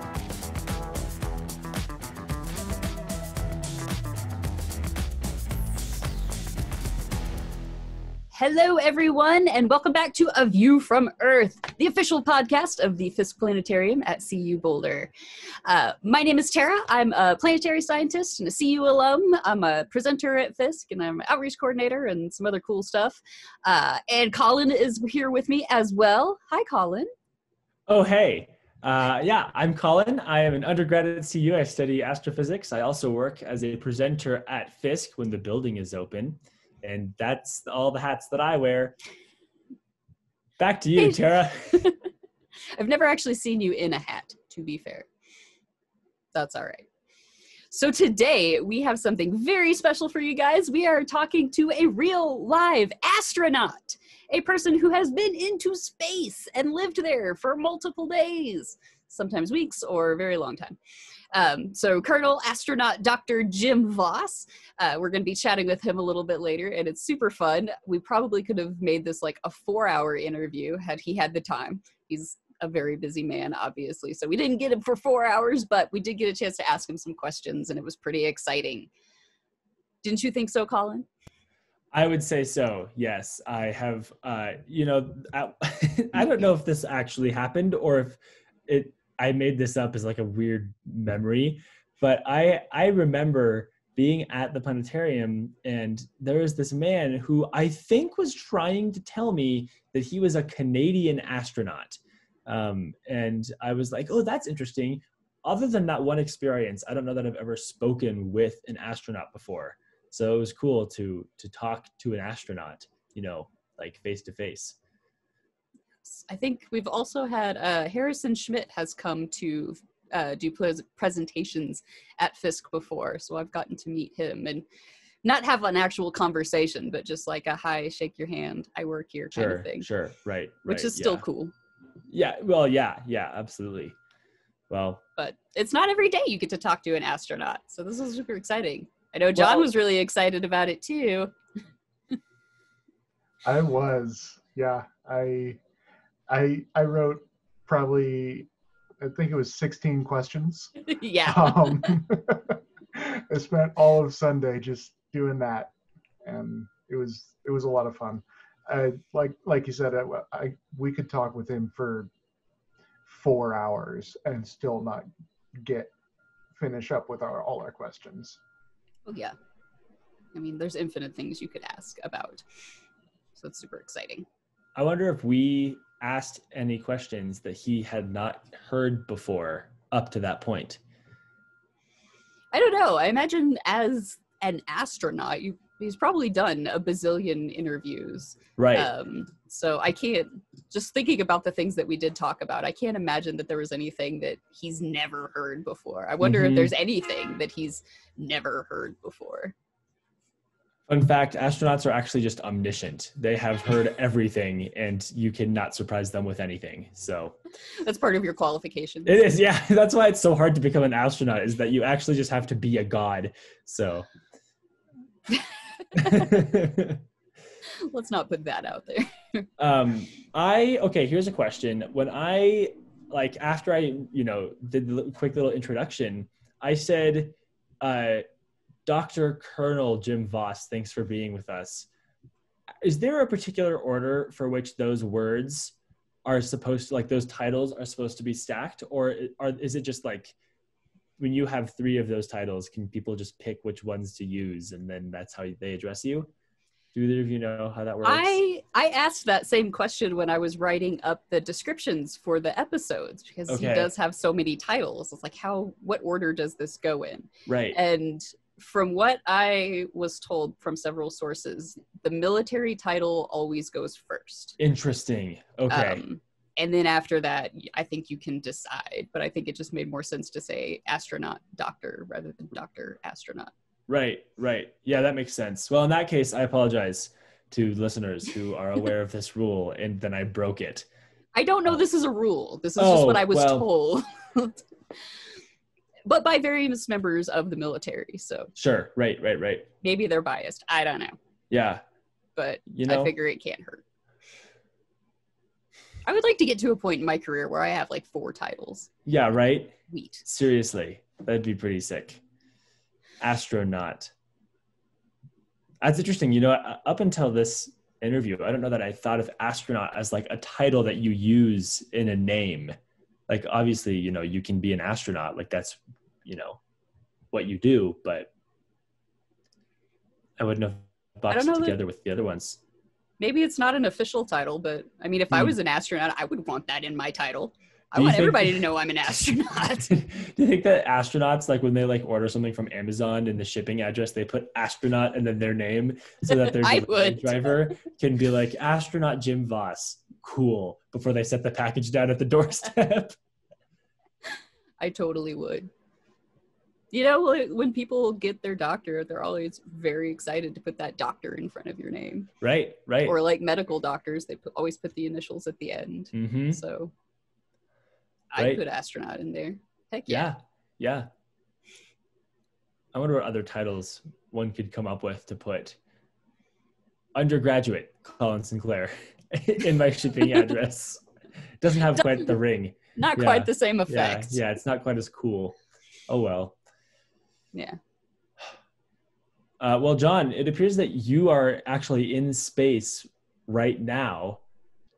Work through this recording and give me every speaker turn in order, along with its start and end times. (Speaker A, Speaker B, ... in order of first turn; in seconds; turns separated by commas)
Speaker A: 8.3-15.1, Speaker A: 15.6-27.1, Speaker B: 27.9-39.0, Speaker B: 40.6-41.9, Speaker A: 42.7-45.1, Speaker A: 46.3-46.9, Speaker A: 47.7-60.8, Speaker A: 61.3-78.9, Speaker A: 80.0-81.1, Speaker B: 81.9-114.8, Speaker A: 116.1-124.6, Speaker A: 125.2-129.9, Speaker B: 129.3-131.2, Speaker A: 130.6-131.5, Speaker B: 132.1-133.9, Speaker B: 134.7-135.0, Speaker A: 135.2-141.3, Speaker B: 139.3-139.7, Speaker C: 143.4-145.6, Speaker C: 146.3-148.5, Speaker C: 149.0-155.7, Speaker A: 150.9-151.9, Speaker C: 156.2-162.1, Speaker C: 163.1-165.9, Speaker C: 166.6-168.4, Speaker A: 169.1-169.3, Speaker A: 170.3-172.4, Speaker A: 173.3-174.2, Speaker B: 174.8-180.8, Speaker A: 182.5-199.5, Speaker B: 188.6-188.9, Speaker B: 196.2-196.7, Speaker B: 200.9-207.3, Speaker A: 207.8-209.3, Speaker B: 209.1-214.1, Speaker B: 215.9-217.0, Speaker A: 216.0-216.3, Speaker A: 217.8-219.4, Speaker B: 219.6-228.2, Speaker B: 228.8-231.9, Speaker B: 232.8-235.7, Speaker B: 236.2-240.3, Speaker B: 241.2-246.3, Speaker B: 246.9-248.4, Speaker A: 248.0-264.6, Speaker B: 253.5-253.9, Speaker B: 257.5-257.8, Speaker B: 264.6-266.0, Speaker A: 265.7-273.5, Speaker B: 273.9-280.9, Speaker A: 281.3-284.6, Speaker B: 282.8-283.7, Speaker A: 286.1-288.5, Speaker B: 288.6-289.7, Speaker A: 289.8-291.1, Speaker B: 291.5-291.8, Speaker A: 292.4-293.8, Speaker B: 292.7-293.1, Speaker A: 296.0-298.9, Speaker B: 299.1-302.2, Speaker A: 299.9-300.2, Speaker B: 303.2-304.1, Speaker B: 305.8-312.7, Speaker B: 313.3-316.6, Speaker B: 317.3-318.3, Speaker B: 320.4-322.6, Speaker A: 321.3-321.8, Speaker A: 323.2-330.0, Speaker B: 327.9-328.6, Speaker B: 329.9-343.1, Speaker A: 336.3-337.7, Speaker A: 344.8-345.7, Speaker A: 346.9-352.3, Speaker B: 352.4-353.1, Speaker A: 353.0-356.9, Speaker B: 356.1-356.6, Speaker A: 358.3-360.3, Speaker B: 360.1-361.1, Speaker B: 362.9-365.8, Speaker B: 367.1-371.0, Speaker B: 371.6-375.5, Speaker A: 371.9-372.3, Speaker A: 372.9-374.4, Speaker B: 376.1-376.6, Speaker B: 379.6-384.4